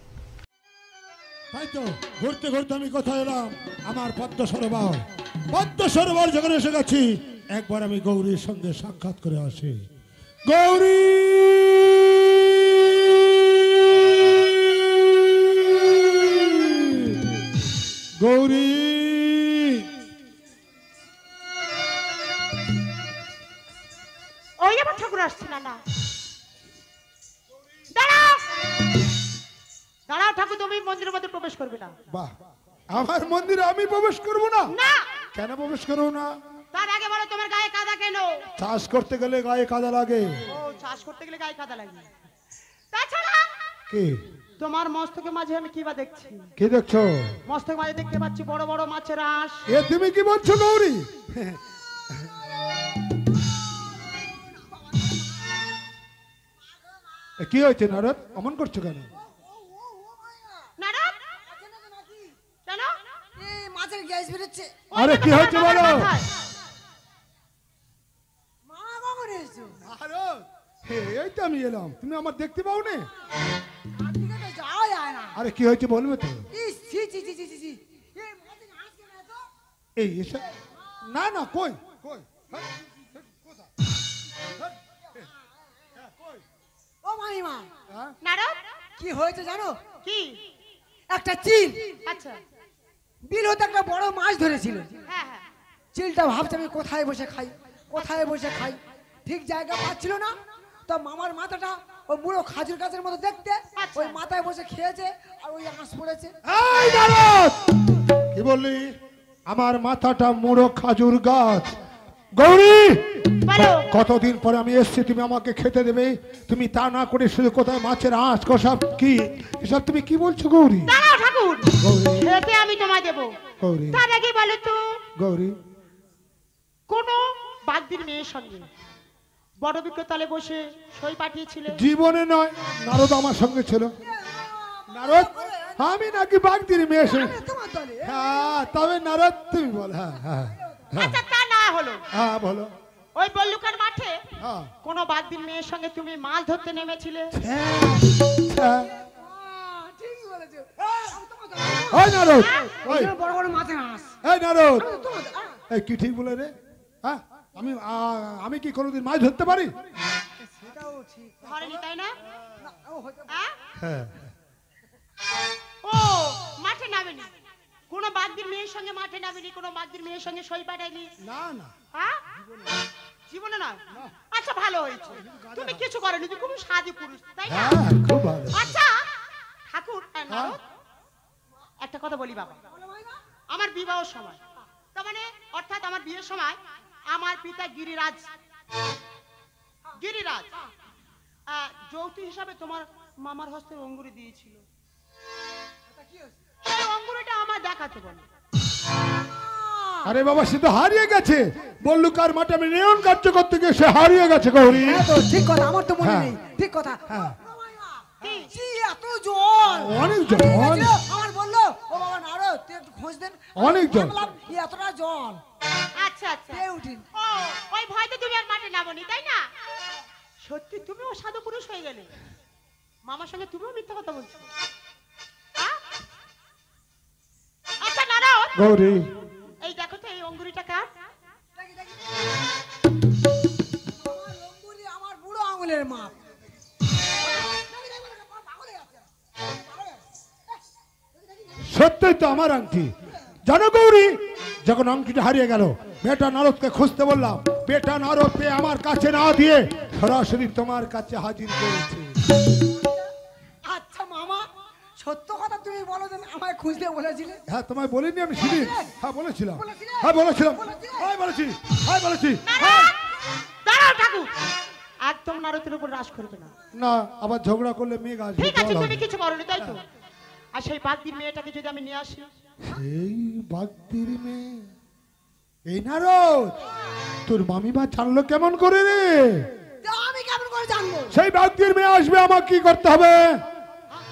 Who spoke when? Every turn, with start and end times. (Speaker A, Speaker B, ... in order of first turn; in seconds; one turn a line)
Speaker A: 1.5-9.8
Speaker A: 10.5-17.3
Speaker A: 18.2-19.9
Speaker B: 24.6-25.8
Speaker B: 27.9-28.4
Speaker B: 30.1-31.9
Speaker A: 32.9-34.7
Speaker B: 34.7-35.0
Speaker A: 35.3-36.3
Speaker B: 36.7-38.5
Speaker A: 38.6-40.3
Speaker B: 40.5-42.1
Speaker B: 42.9-43.5
Speaker A: 43.9-44.2
Speaker B: 44.6-46.5
Speaker A: 46.6-47.4
Speaker B: 47.5-49.7
Speaker A: 49.7-51.6
Speaker A: 57.4-59.1
Speaker C: 59.2-60.7
Speaker B: 60.8-61.1
Speaker C: 61.3-62.4
Speaker C: 63.4-64.8
Speaker B: 64.9-66.3
Speaker A: 65.0-66.1
Speaker C: 68.7-69.8
Speaker A: 69.8-73.1
Speaker C: 74.0-75.4
Speaker A: 75.3-76.5
Speaker C: 76.5-79.5
Speaker A: 80.0-80.5
Speaker A: 81.0-82.6
Speaker C: 87.0-87.7
Speaker B: 88.2-88.5
Speaker C: 89.0-89.8
Speaker B: 90.0-90.4
Speaker C: 91.1-92.0
Speaker B: 92.1-92.4
Speaker C: 93.3-95.0
Speaker B: 95.1-95.5
Speaker C: 95.9-100.3
Speaker C: 100.9-106.3
Speaker B: 103.8-104.2
Speaker A: 106.5-107.7
Speaker A: 108.3-108.9
Speaker A: 109.5-111.7
Speaker A: 112.4-113.0
Speaker B: 113.5-113.9
Speaker A: 113.9-120.9
Speaker B: 120.9-123.3
Speaker A: 121.8-122.3
Speaker A: 123.6-124.0
Speaker B: 123.9-124.8
Speaker A: 125.2-125.5
Speaker B: 126.9-128.7
Speaker B: 129.6-131.8
Speaker A: 131.7-133.9
Speaker C: 134.0-136.1
Speaker A: 134.9-137.4
Speaker C: 137.0-138.5
Speaker A: 138.0-141.2
Speaker C: 140.6-140.9
Speaker B: 140.9-142.0
Speaker A: 142.1-142.7
Speaker B: 143.2-144.2
Speaker A: 144.4-144.7
Speaker B: 144.8-147.4
Speaker A: 147.3-148.9
Speaker C: 148.7-154.2
Speaker A: 151.9-153.1
Speaker B: 152.3-152.7
Speaker A: 154.2-154.9
Speaker C: 154.8-155.6
Speaker A: 155.7-156.5
Speaker A: 157.0-159.7
Speaker C: 160.4-161.8
Speaker B: 161.4-162.1
Speaker C: 162.5-163.4
Speaker A: 163.8-164.3
Speaker B: 165.8-167.3
Speaker B: 167.9-171.1
Speaker A: 171.2-171.7
Speaker B: 171.9-172.2
Speaker B: 173.3-177.9
Speaker A: 175.1-175.8
Speaker A: 177.5-178.8
Speaker B: 178.5-179.0
Speaker B: 179.7-180.6
Speaker A: 180.3-180.6
Speaker B: 181.8-182.6
Speaker C: 182.7-183.2
Speaker B: 183.5-184.4
Speaker B: 184.9-186.6
Speaker B: 187.1-188.2
Speaker B: 190.0-190.5
Speaker B: 191.5-194.6
Speaker B: 196.6-198.2
Speaker C: 199.3-200.1
Speaker A: 200.1-205.1
Speaker C: 204.7-215.4
Speaker A: 206.0-206.3
Speaker A: 207.1-207.3
Speaker B: 208.2-208.5
Speaker A: 209.7-210.9
Speaker A: 213.6-214.3
Speaker B: 216.0-216.6
Speaker C: 216.5-217.0
Speaker B: 217.2-219.4
Speaker B: 220.4-222.1
Speaker B: 223.1-224.4
Speaker B: 227.8-228.7
Speaker A: 228.6-229.1
Speaker B: 229.6-230.9
Speaker C: 231.6-232.1
Speaker C: 233.9-236.1
Speaker C: 237.2-240.0
Speaker A: 241.7-242.9
Speaker A: 243.4-252.2
Speaker C: 253.7-254.5
Speaker C: 255.0-257.4
Speaker A: 257.5-262.9
Speaker C: 258.4-259.0
Speaker C: 259.5-261.1
Speaker B: 262.5-263.0
Speaker B: 263.6-264.3
Speaker B: 265.1-266.5
Speaker A: 266.8-269.0
Speaker B: 268.4-269.8
Speaker B: 270.6-272.2
Speaker A: 272.6-274.7
Speaker A: 275.7-276.6
Speaker A: 277.3-279.5
Speaker C: 279.8-281.2
Speaker A: 281.1-283.4